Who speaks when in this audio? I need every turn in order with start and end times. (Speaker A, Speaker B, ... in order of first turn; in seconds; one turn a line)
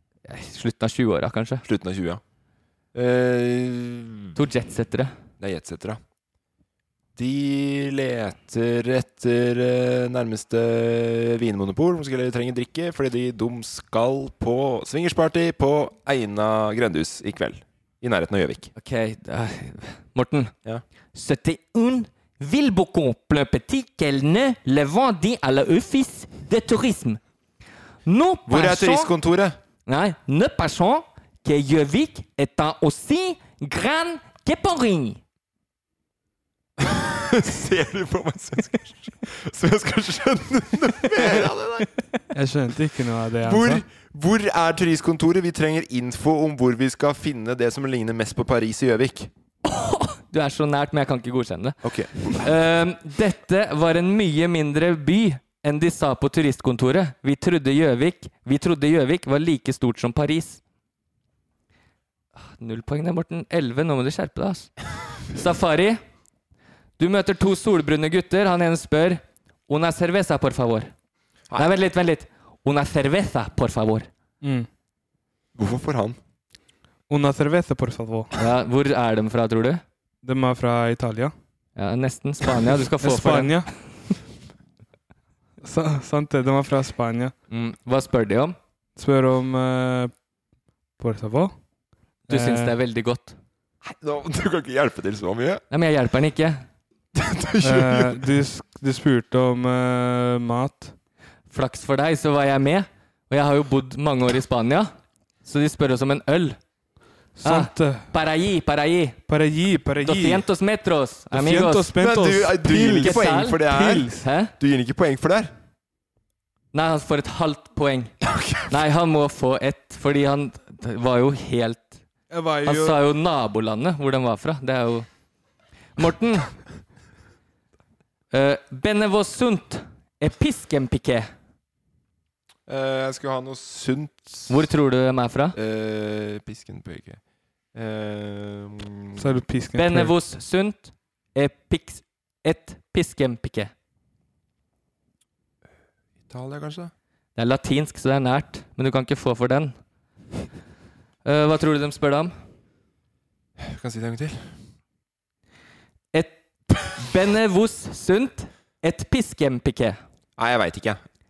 Speaker A: 0.3-1.6
Speaker B: 1.6-2.2
Speaker B: 2.9-4.3
Speaker A: 4.3-5.1
Speaker B: 5.4-6.0
Speaker B: 7.2-18.7
Speaker A: 18.8-20.5
Speaker A: 21.1-27.2
Speaker A: 28.1-29.1
Speaker B: 28.5-29.6
Speaker A: 29.9-35.2
Speaker B: 36.8-41.9
Speaker A: 41.2-41.5
Speaker C: 42.3-43.8
Speaker B: 43.4-49.3
Speaker A: 49.6-60.6
Speaker B: 51.8-52.5
Speaker A: 62.4-64.7
Speaker A: 65.3-66.0
Speaker A: 67.0-70.9
Speaker A: 71.5-74.1
Speaker C: 74.4-74.7
Speaker B: 75.5-76.2
Speaker C: 77.1-78.3
Speaker A: 78.4-79.8
Speaker C: 80.2-81.3
Speaker A: 81.8-83.7
Speaker C: 83.0-83.7
Speaker C: 85.6-87.3
Speaker A: 87.5-88.5
Speaker C: 89.0-90.1
Speaker C: 91.0-91.5
Speaker C: 92.3-92.7
Speaker A: 92.3-93.3
Speaker B: 93.8-95.6
Speaker A: 95.7-96.6
Speaker B: 97.1-98.2
Speaker C: 97.6-100.9
Speaker A: 101.5-104.9
Speaker A: 105.4-106.6
Speaker C: 107.4-108.1
Speaker A: 107.4-109.2
Speaker C: 109.3-110.5
Speaker A: 110.0-111.9
Speaker C: 111.3-114.2
Speaker B: 112.0-115.5
Speaker A: 113.0-114.5
Speaker A: 116.7-118.1
Speaker B: 118.2-118.7
Speaker A: 118.7-122.0
Speaker C: 122.3-123.0
Speaker A: 122.6-125.1
Speaker A: 126.0-126.5
Speaker A: 128.3-131.3
Speaker B: 132.7-134.7
Speaker A: 134.5-135.6
Speaker B: 135.5-137.2
Speaker B: 137.7-139.4
Speaker C: 139.2-140.1
Speaker A: 139.7-143.7
Speaker B: 146.3-146.9
Speaker A: 147.3-149.7
Speaker A: 151.2-152.3
Speaker B: 153.6-154.5
Speaker A: 156.1-160.0
Speaker B: 160.4-161.0